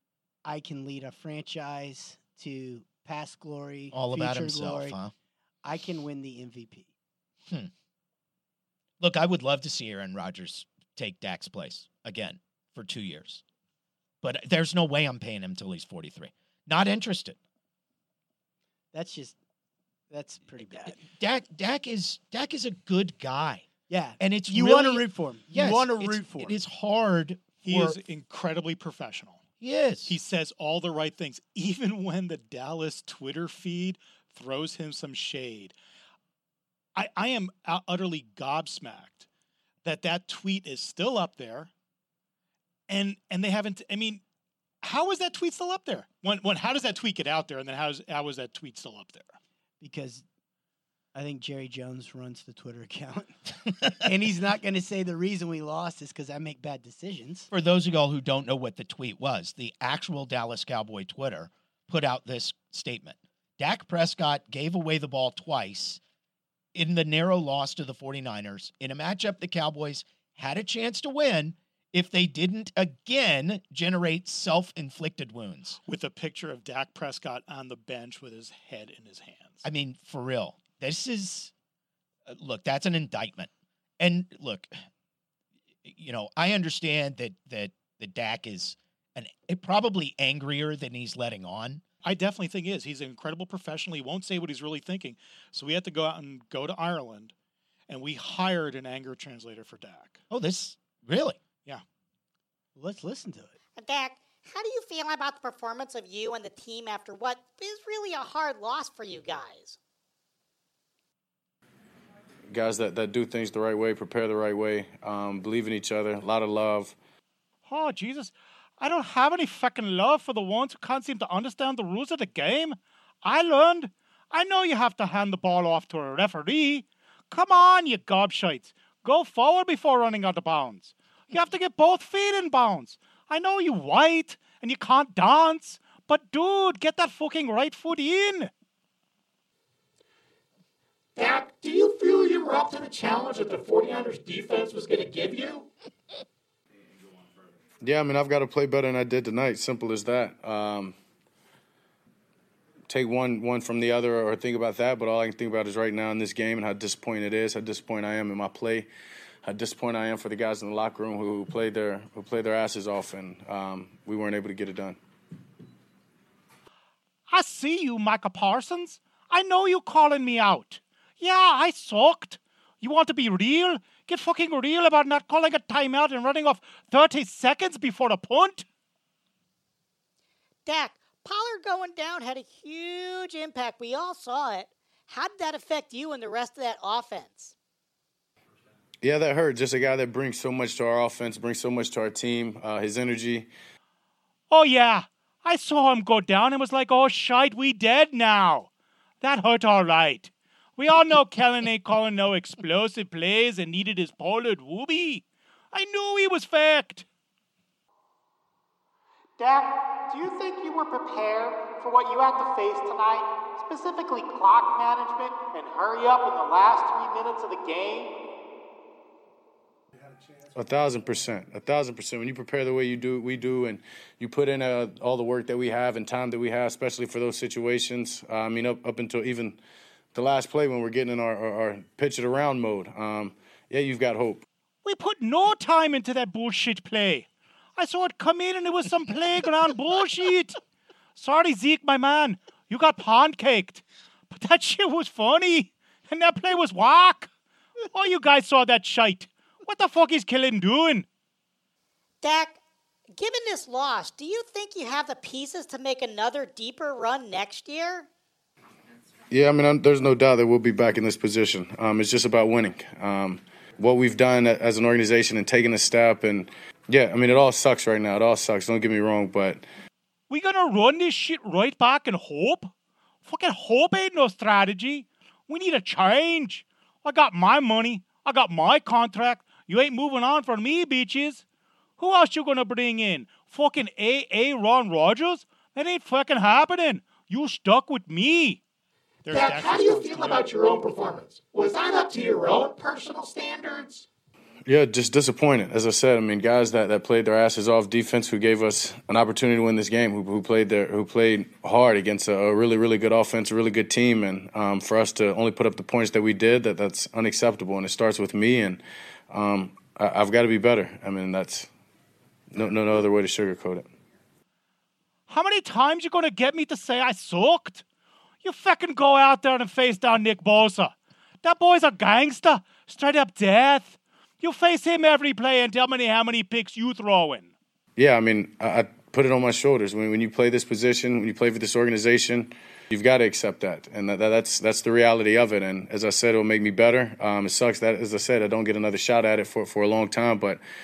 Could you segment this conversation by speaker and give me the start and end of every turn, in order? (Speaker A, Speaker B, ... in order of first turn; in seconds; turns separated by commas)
Speaker A: 0.5-5.0, Speaker B: 3.9-5.1, Speaker A: 5.6-6.9, Speaker B: 9.0-13.4, Speaker B: 14.2-17.4, Speaker A: 18.9-19.4, Speaker A: 20.1-21.0, Speaker B: 20.9-23.7, Speaker A: 23.9-26.6, Speaker B: 24.2-28.0, Speaker C: 27.6-29.4, Speaker B: 29.6-30.2, Speaker C: 30.1-35.8, Speaker C: 37.0-39.3, Speaker C: 39.8-41.7, Speaker C: 42.9-44.2, Speaker C: 44.8-49.4, Speaker A: 49.8-50.2, Speaker A: 51.1-53.4, Speaker A: 53.9-57.5, Speaker B: 57.5-66.0, Speaker B: 66.7-75.8, Speaker C: 75.8-79.6, Speaker B: 79.6-81.5, Speaker B: 82.3-84.7, Speaker B: 85.8-91.8, Speaker C: 92.0-97.3, Speaker C: 97.9-100.2, Speaker B: 100.3-101.4, Speaker A: 102.8-103.5, Speaker D: 103.8-109.8, Speaker E: 112.5-117.0, Speaker C: 117.7-138.5, Speaker F: 141.2-145.7, Speaker E: 147.8-150.9, Speaker E: 152.9-158.9, Speaker E: 159.4-165.0, Speaker C: 167.3-178.7, Speaker D: 180.7-187.5, Speaker E: 189.0-193.5, Speaker C: 194.5-198.7, Speaker C: 199.2-207.1, Speaker C: 209.4-218.2, Speaker E: 220.5-229.6, Speaker E: 230.1-234.4, Speaker C: 234.8-240.6, Speaker C: 241.2-247.3, Speaker C: 247.9-251.1, Speaker D: 252.2-252.6, Speaker D: 253.1-258.1, Speaker E: 259.3-269.6, Speaker C: 270.3-272.7, Speaker C: 273.2-281.4, Speaker C: 282.0-288.6, Speaker C: 289.2-290.5, Speaker F: 289.3-294.1, Speaker E: 294.7-308.8, Speaker E: 309.3-311.7, Speaker E: 312.5-313.9, Speaker C: 315.3-317.8, Speaker C: 318.4-327.5, Speaker E: 328.0-340.6